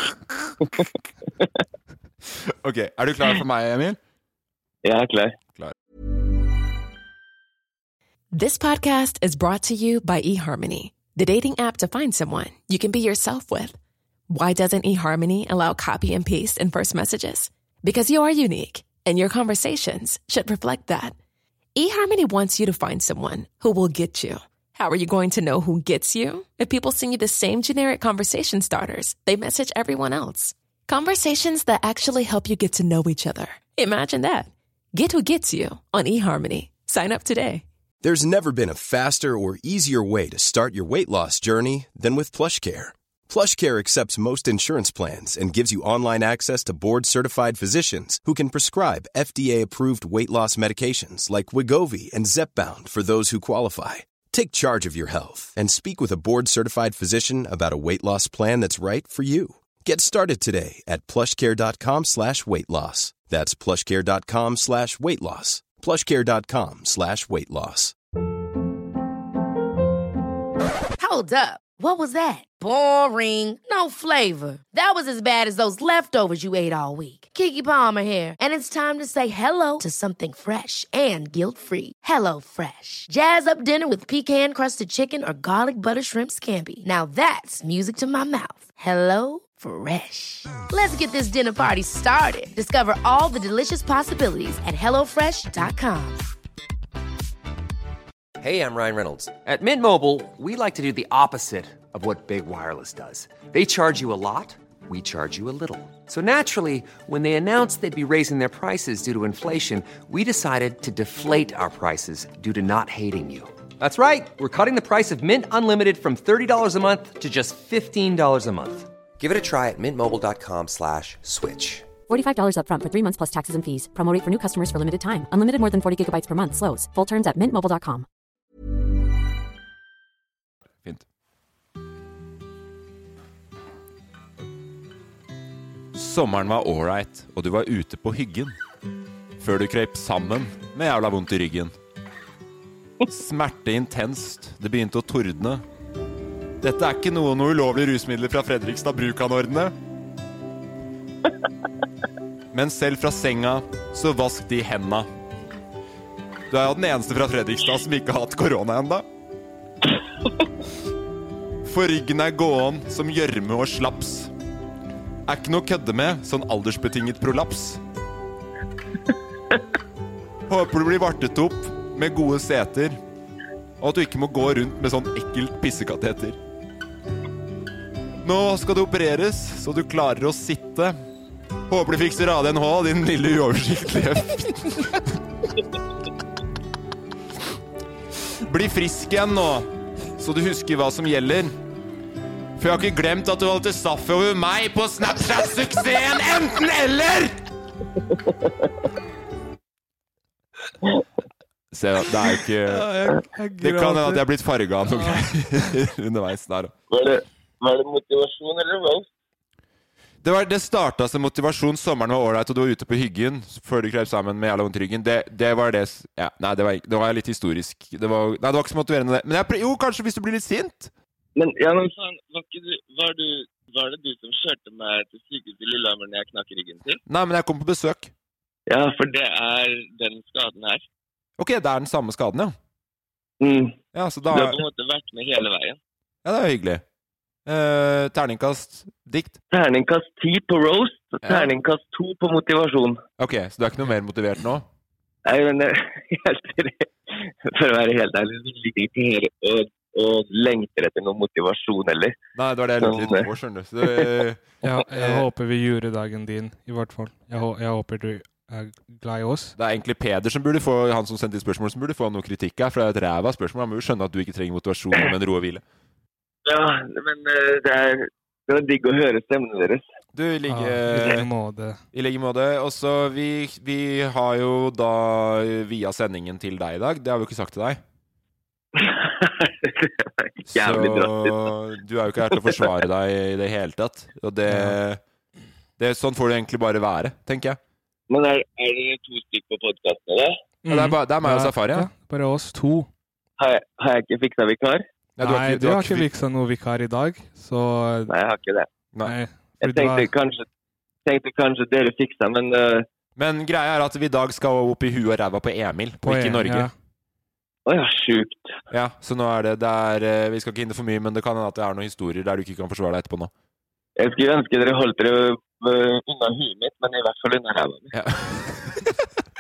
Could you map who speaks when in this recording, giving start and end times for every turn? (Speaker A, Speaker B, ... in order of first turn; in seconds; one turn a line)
Speaker A: 2.4-4.0
Speaker B: 4.8-5.4
Speaker C: 8.3-13.8
Speaker C: 14.3-21.1
Speaker C: 21.8-37.6
Speaker D: 38.0-68.0
Speaker E: 71.0-96.2
Speaker F: 98.4-121.9
Speaker G: 122.1-128.1
Speaker A: 135.9-138.6
Speaker A: 139.4-141.8
Speaker A: 143.1-145.6
Speaker A: 146.6-149.7
Speaker A: 152.5-155.1
Speaker A: 156.5-159.1
Speaker A: 161.6-164.3
Speaker A: 165.3-167.8
Speaker A: 170.5-173.0
Speaker A: 173.8-176.4
Speaker A: 178.2-181.0
Speaker A: 181.7-185.2
Speaker A: 188.4-191.6
Speaker A: 192.6-197.4
Speaker A: 201.7-202.9
Speaker H: 202.7-204.2
Speaker A: 203.6-206.7
Speaker H: 204.9-205.3
Speaker B: 206.9-209.1
Speaker A: 210.2-220.9
Speaker B: 221.4-227.0
Speaker A: 227.1-228.1
Speaker B: 228.7-230.8
Speaker A: 231.4-232.6
Speaker B: 233.4-235.8
Speaker A: 233.9-234.6
Speaker A: 236.2-236.8
Speaker A: 237.5-239.4
Speaker B: 239.5-243.0
Speaker A: 241.2-241.5
Speaker A: 243.2-244.7
Speaker B: 245.2-252.2
Speaker A: 252.3-255.3
Speaker B: 252.8-253.3
Speaker B: 253.8-254.2
Speaker H: 254.6-259.6
Speaker A: 259.6-265.6
Speaker B: 266.4-269.9
Speaker A: 270.1-271.3
Speaker H: 270.5-271.8
Speaker A: 271.9-277.8
Speaker B: 278.8-281.5
Speaker A: 280.5-285.0
Speaker B: 282.4-282.7
Speaker H: 284.5-284.8
Speaker A: 285.8-287.6
Speaker B: 288.1-290.4
Speaker H: 290.6-292.9
Speaker A: 290.7-291.9
Speaker B: 293.4-294.9
Speaker A: 295.2-296.1
Speaker H: 295.2-298.1
Speaker B: 298.1-298.7
Speaker H: 299.0-300.1
Speaker B: 299.6-300.5
Speaker B: 301.1-302.9
Speaker A: 303.2-306.7
Speaker H: 306.0-306.7
Speaker B: 307.7-308.5
Speaker A: 308.7-313.3
Speaker B: 314.0-317.9
Speaker A: 317.9-319.0